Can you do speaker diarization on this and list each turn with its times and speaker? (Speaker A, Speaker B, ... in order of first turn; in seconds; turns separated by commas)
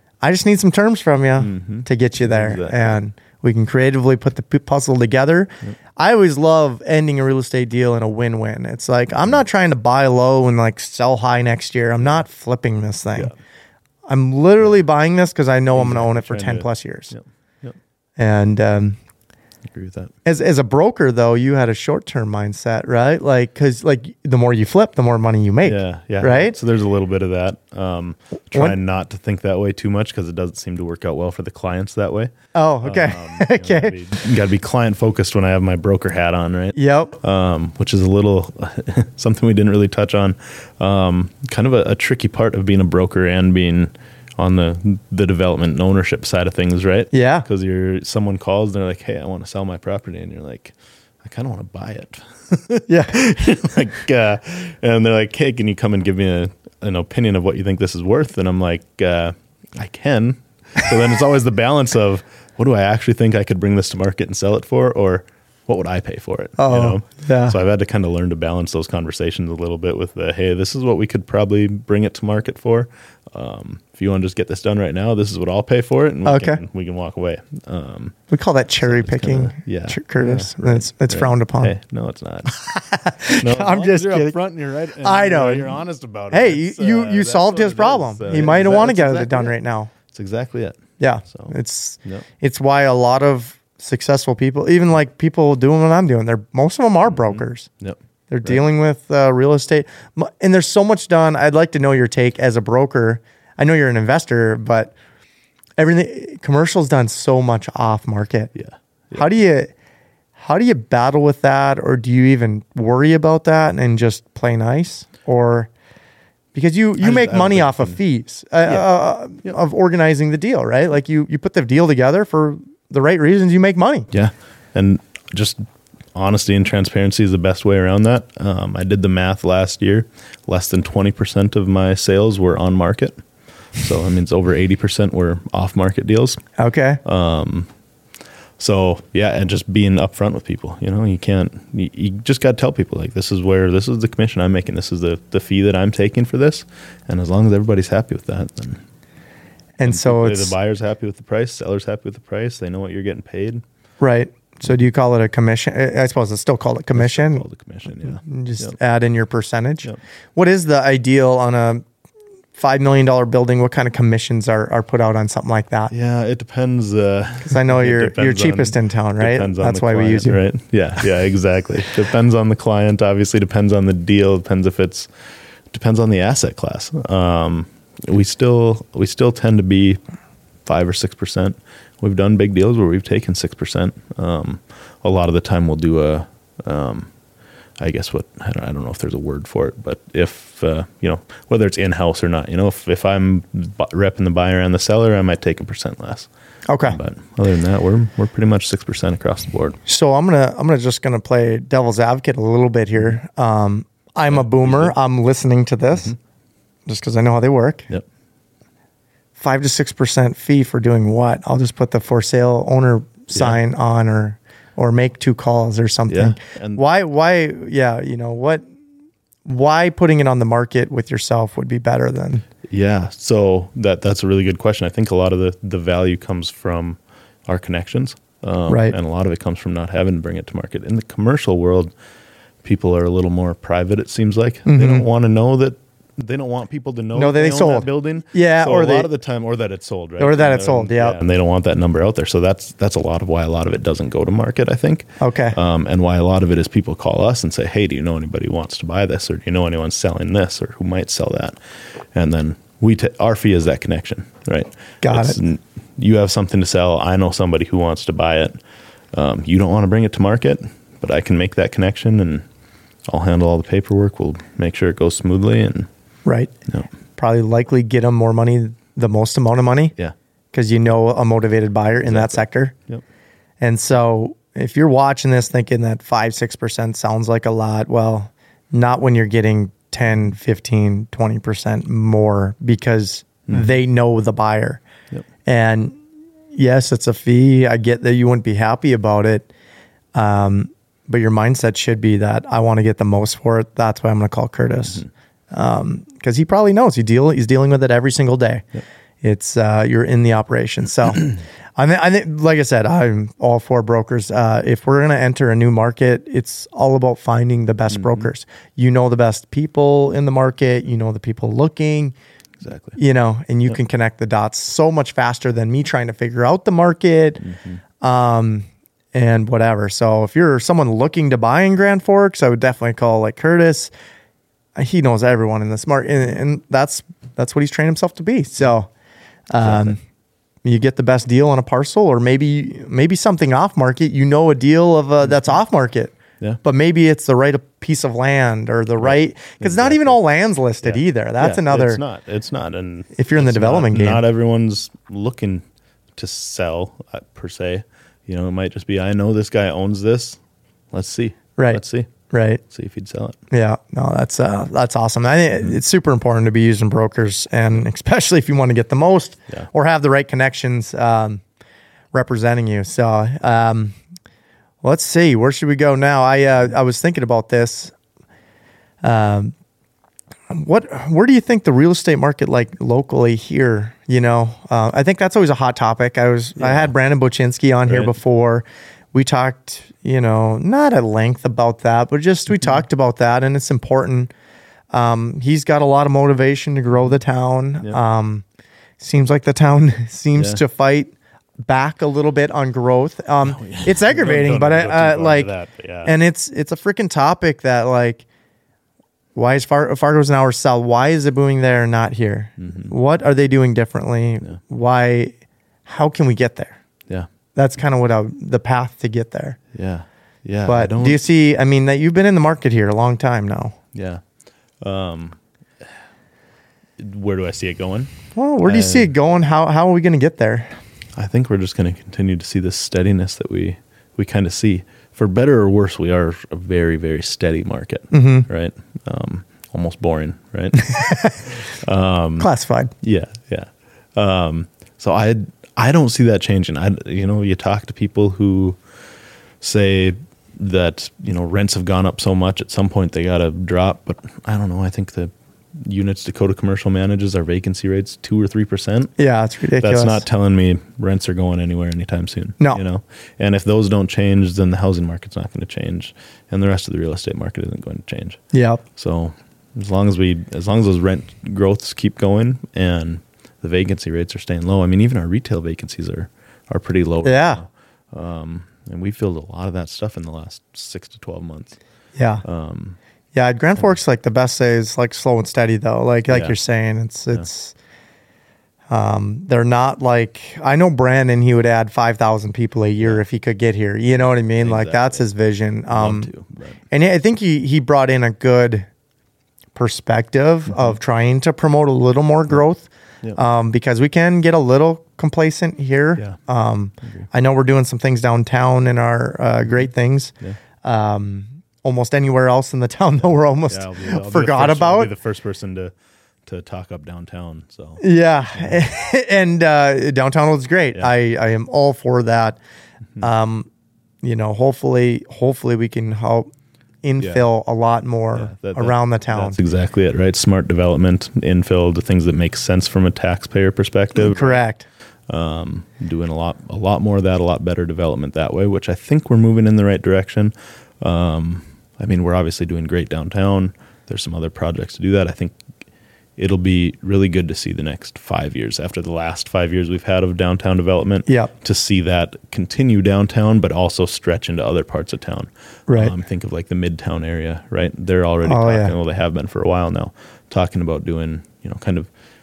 Speaker A: 0.2-13.3, Speaker B: 1.4-3.0, Speaker A: 14.1-17.1, Speaker B: 15.7-17.8, Speaker A: 18.2-19.0, Speaker B: 19.7-20.1, Speaker A: 20.2-26.6, Speaker B: 25.6-78.2, Speaker A: 32.5-33.9, Speaker A: 36.7-37.1, Speaker A: 47.1-47.5, Speaker A: 52.9-53.3, Speaker A: 66.6-67.6, Speaker A: 76.2-76.6, Speaker A: 78.3-81.7, Speaker B: 78.8-82.5, Speaker A: 82.5-84.4, Speaker B: 83.3-89.5, Speaker A: 85.0-85.8, Speaker A: 86.3-89.9, Speaker B: 90.1-91.5, Speaker A: 91.0-97.7, Speaker B: 97.1-98.6, Speaker A: 98.3-104.9, Speaker A: 105.8-108.5, Speaker B: 108.5-109.2, Speaker A: 109.1-109.7, Speaker A: 110.3-115.7, Speaker A: 116.5-124.1, Speaker B: 117.0-118.0, Speaker B: 124.1-125.6, Speaker B: 126.1-133.2, Speaker B: 133.8-136.4, Speaker A: 136.6-137.0, Speaker B: 137.0-137.7, Speaker B: 138.6-148.8, Speaker A: 149.8-150.5, Speaker B: 149.8-153.6, Speaker A: 154.0-157.4, Speaker B: 156.9-158.7, Speaker A: 158.0-161.8, Speaker A: 162.5-165.9, Speaker B: 165.9-175.1, Speaker A: 167.4-170.4, Speaker B: 175.7-180.0, Speaker B: 180.6-187.1, Speaker B: 187.8-196.3, Speaker A: 196.7-197.0, Speaker B: 196.8-199.8, Speaker A: 199.8-206.1, Speaker B: 204.3-204.9, Speaker A: 206.9-207.9, Speaker A: 209.4-218.6, Speaker B: 213.3-213.6, Speaker B: 216.1-216.8, Speaker A: 219.4-222.4, Speaker B: 222.7-231.9, Speaker A: 228.7-228.9, Speaker B: 232.6-251.6, Speaker A: 234.7-235.1, Speaker A: 237.1-239.1, Speaker A: 240.2-241.2, Speaker A: 245.2-245.6, Speaker B: 252.1-258.6, Speaker A: 255.0-255.4, Speaker B: 259.1-262.4, Speaker B: 263.1-265.9, Speaker A: 266.2-266.5, Speaker A: 267.1-269.9, Speaker A: 270.5-272.7, Speaker B: 272.0-273.0, Speaker A: 273.6-284.8, Speaker A: 285.4-286.0, Speaker A: 286.5-289.5, Speaker A: 290.1-298.6, Speaker A: 299.2-312.1, Speaker B: 307.9-308.3, Speaker B: 312.6-313.0, Speaker A: 313.0-317.4, Speaker B: 317.4-317.8, Speaker A: 318.0-323.9, Speaker A: 324.8-328.9, Speaker A: 329.5-330.0, Speaker B: 329.6-329.9, Speaker A: 330.6-342.0, Speaker B: 335.2-335.6, Speaker B: 339.0-340.2, Speaker B: 340.8-345.6, Speaker A: 343.1-344.2, Speaker B: 346.1-350.4, Speaker B: 350.9-352.1, Speaker A: 351.6-352.6, Speaker B: 352.7-353.4, Speaker A: 353.5-361.4, Speaker A: 362.1-363.9, Speaker A: 364.8-367.9, Speaker A: 369.0-369.5, Speaker A: 370.5-384.3, Speaker B: 376.6-376.9, Speaker B: 377.9-378.1, Speaker A: 384.9-388.4, Speaker A: 389.0-391.1, Speaker B: 390.3-390.6, Speaker A: 391.6-395.5, Speaker B: 393.4-396.1, Speaker A: 396.0-398.2, Speaker A: 399.3-405.3, Speaker B: 402.6-402.9, Speaker A: 405.9-406.8, Speaker A: 407.5-409.6, Speaker B: 409.7-411.2, Speaker A: 410.6-413.8, Speaker B: 413.9-414.2, Speaker B: 414.8-415.9, Speaker B: 417.0-418.1, Speaker A: 418.3-420.7, Speaker B: 418.6-419.1, Speaker B: 421.1-432.5, Speaker A: 428.1-428.5, Speaker A: 430.8-431.4, Speaker A: 432.4-432.9, Speaker B: 433.0-438.8, Speaker B: 439.6-449.1, Speaker A: 449.2-450.2, Speaker B: 449.8-458.4, Speaker A: 458.5-458.8, Speaker B: 458.9-471.8, Speaker A: 467.2-467.6, Speaker A: 472.1-472.4, Speaker B: 472.4-473.0, Speaker A: 473.3-477.7, Speaker B: 476.3-476.5, Speaker A: 478.9-486.3, Speaker B: 484.2-485.2, Speaker B: 485.9-486.8, Speaker A: 486.9-488.9, Speaker A: 489.7-505.1, Speaker B: 503.7-505.9, Speaker B: 506.4-508.0, Speaker A: 508.0-512.6, Speaker A: 513.2-513.7, Speaker A: 514.2-516.5, Speaker A: 517.0-519.6, Speaker B: 517.2-517.5, Speaker B: 518.3-524.6, Speaker A: 524.1-524.9, Speaker B: 525.3-535.6, Speaker B: 536.4-552.1, Speaker A: 545.9-546.1, Speaker A: 548.4-548.9